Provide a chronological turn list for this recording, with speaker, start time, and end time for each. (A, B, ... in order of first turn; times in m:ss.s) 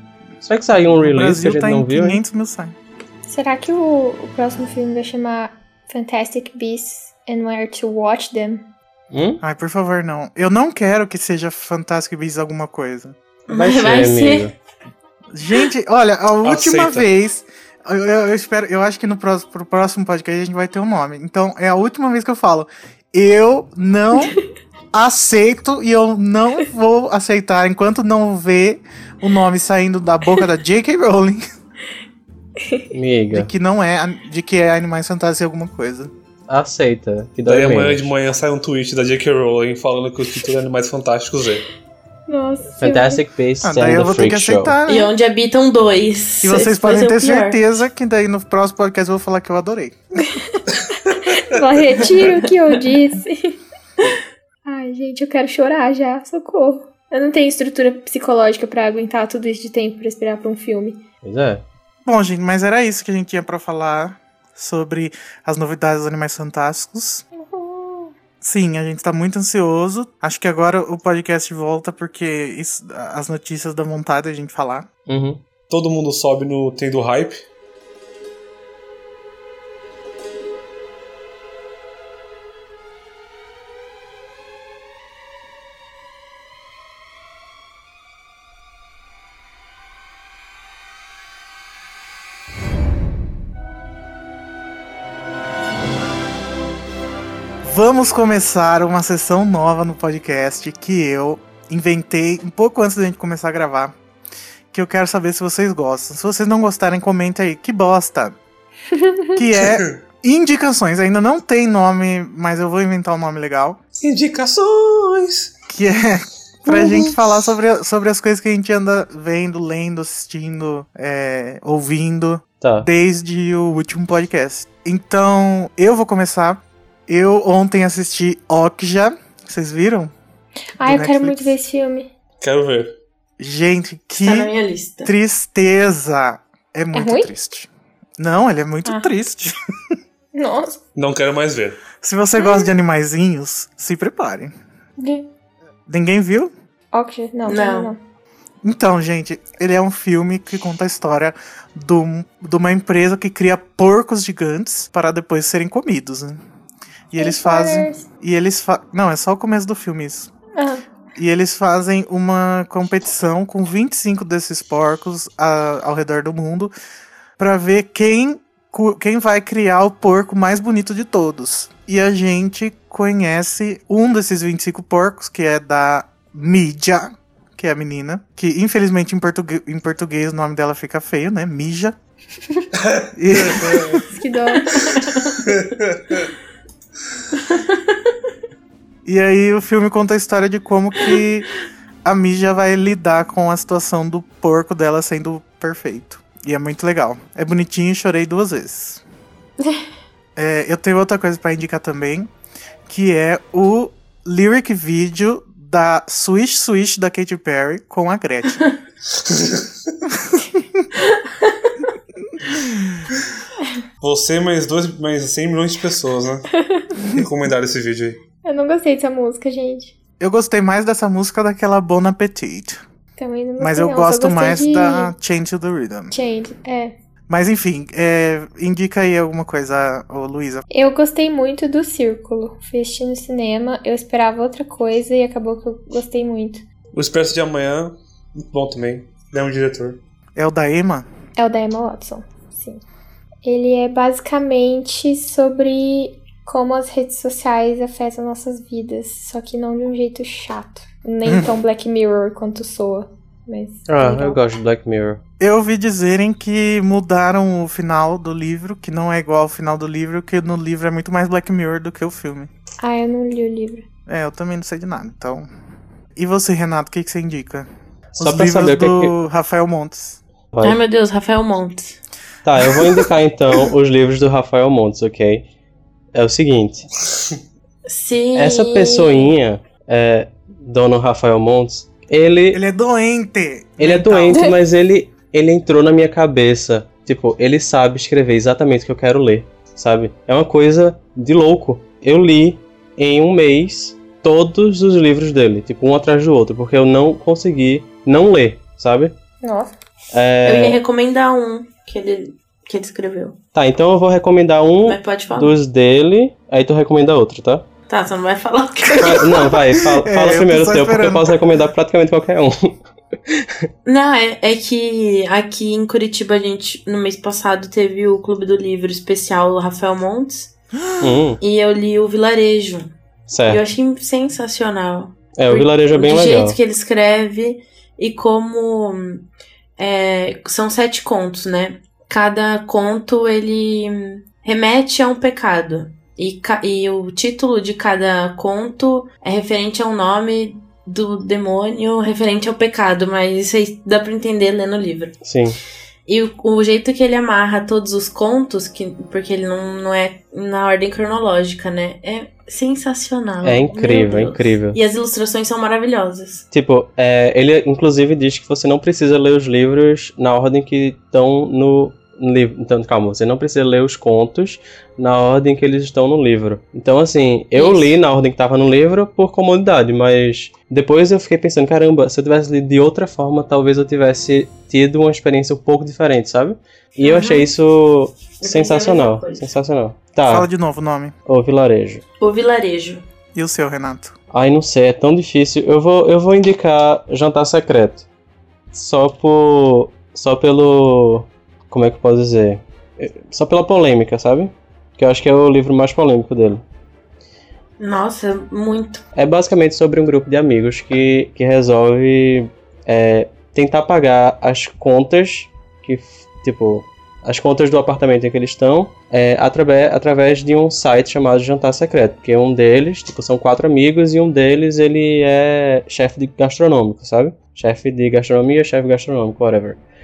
0:00.4-0:02.2 A
0:01.0-0:02.8 B
0:03.3-0:08.7 C
0:09.1-0:09.4 A
0:09.4-0:13.2 B
0:13.5-0:14.5 D
0:13.5-0:14.5 A
0:15.3-0:24.4 B
0:16.4-0:17.1 E
0:24.9-0:31.4 B
0:32.6-0:32.9 C
0:32.9-0:33.5 A
0:33.3-0:36.1 B
0:36.5-0:38.1 A
0:37.4-0:41.7 E
0:42.3-0:43.2 C
0:42.8-0:44.8 A
0:43.6-0:45.1 B
0:44.9-0:47.6 D
0:46.4-0:50.0 B
0:50.2-0:53.6 C
0:54.6-1:01.0 C
1:01.2-1:01.6 A
1:02.0-1:07.2 B
1:07.4-1:08.1 C
1:08.4-1:14.9 B
1:15.1-1:15.4 A
1:15.7-1:17.4 E
1:37.6-1:44.0 B
1:44.7-1:48.4 B
1:49.0-1:49.3 C
1:49.4-1:53.8 B
1:49.6-1:50.0 E
1:54.0-1:55.5 E
1:55.7-2:10.1 B
1:56.7-1:57.2 E
2:02.6-2:02.9 A
2:10.8-2:12.1 C
2:10.8-2:11.6 B
2:12.4-2:12.9 E
2:13.4-2:14.5 B
2:14.2-2:15.1 D
2:15.0-2:19.6 B
2:16.9-2:17.3 C
2:20.3-2:20.8 C
2:21.0-2:21.8 E
2:22.0-2:24.5 B
2:25.0-2:25.3 C
2:25.9-2:26.5 B
2:26.9-2:28.0 C
2:27.5-2:27.9 D
2:28.6-2:36.4 B
2:37.1-2:40.3 B
2:37.2-2:38.0 C
2:40.6-2:40.8 C
2:41.2-2:46.7 B
2:47.4-3:02.0 B
3:02.8-3:04.0 E
3:03.1-3:04.0 B
3:04.0-3:05.3 C
3:04.7-3:05.4 D
3:05.4-3:06.3 E
3:07.4-3:07.9 D
3:09.0-3:11.5 B
3:12.0-3:19.0 B
3:20.4-3:22.3 B
3:22.9-3:28.7 B
3:29.1-3:29.7 E
3:30.1-3:30.9 B
3:32.4-3:33.0 B
3:34.0-3:36.5 E
3:36.5-3:36.9 C
3:37.1-3:38.2 E
3:38.4-3:40.0 C
3:40.2-3:42.8 B
3:43.2-3:45.1 C
3:43.6-3:46.2 B
3:46.1-3:46.9 C
3:47.3-3:50.6 B
3:50.7-3:56.6 C
3:56.9-4:00.0 E
4:00.4-4:01.1 B
4:01.4-4:02.8 C
4:03.4-4:14.4 C
4:11.2-4:11.5 B
4:13.9-4:15.2 A
4:15.4-4:22.5 B
4:22.8-4:23.9 C
4:24.1-4:25.5 B
4:26.2-4:27.7 B
4:28.1-4:29.2 A
4:28.2-4:30.2 B
4:30.5-4:30.8 A
4:30.6-4:32.0 D
4:32.4-4:35.4 A
4:36.1-4:36.9 A
4:37.9-4:39.3 D
4:38.4-4:42.6 A
4:42.5-4:44.5 B
4:43.8-4:59.2 A
4:59.4-4:59.7 C
5:00.1-5:00.8 A
5:00.4-5:03.4 D
5:03.5-5:07.6 A
5:04.8-5:05.6 D
5:07.9-5:09.6 D
5:09.0-5:13.7 A
5:09.6-5:11.4 B
5:13.8-5:20.5 D
5:21.0-5:21.4 A
5:21.4-5:22.9 D
5:23.3-5:23.7 A
5:23.5-5:29.2 D
5:25.4-5:26.6 A
5:29.8-5:45.2 D
5:45.2-5:45.6 A
5:46.1-5:56.5 D
5:53.4-5:54.8 A
5:56.5-6:20.5 A
6:07.6-6:08.0 D
6:17.1-6:17.4 B
6:17.1-6:17.4 D
6:18.4-6:19.5 D
6:20.2-6:21.1 B
6:21.3-6:22.0 A
6:22.2-6:23.0 D
6:23.4-6:24.2 B
6:24.3-6:28.1 A
6:28.7-6:36.6 A
6:37.8-6:39.0 D
6:39.2-6:59.8 A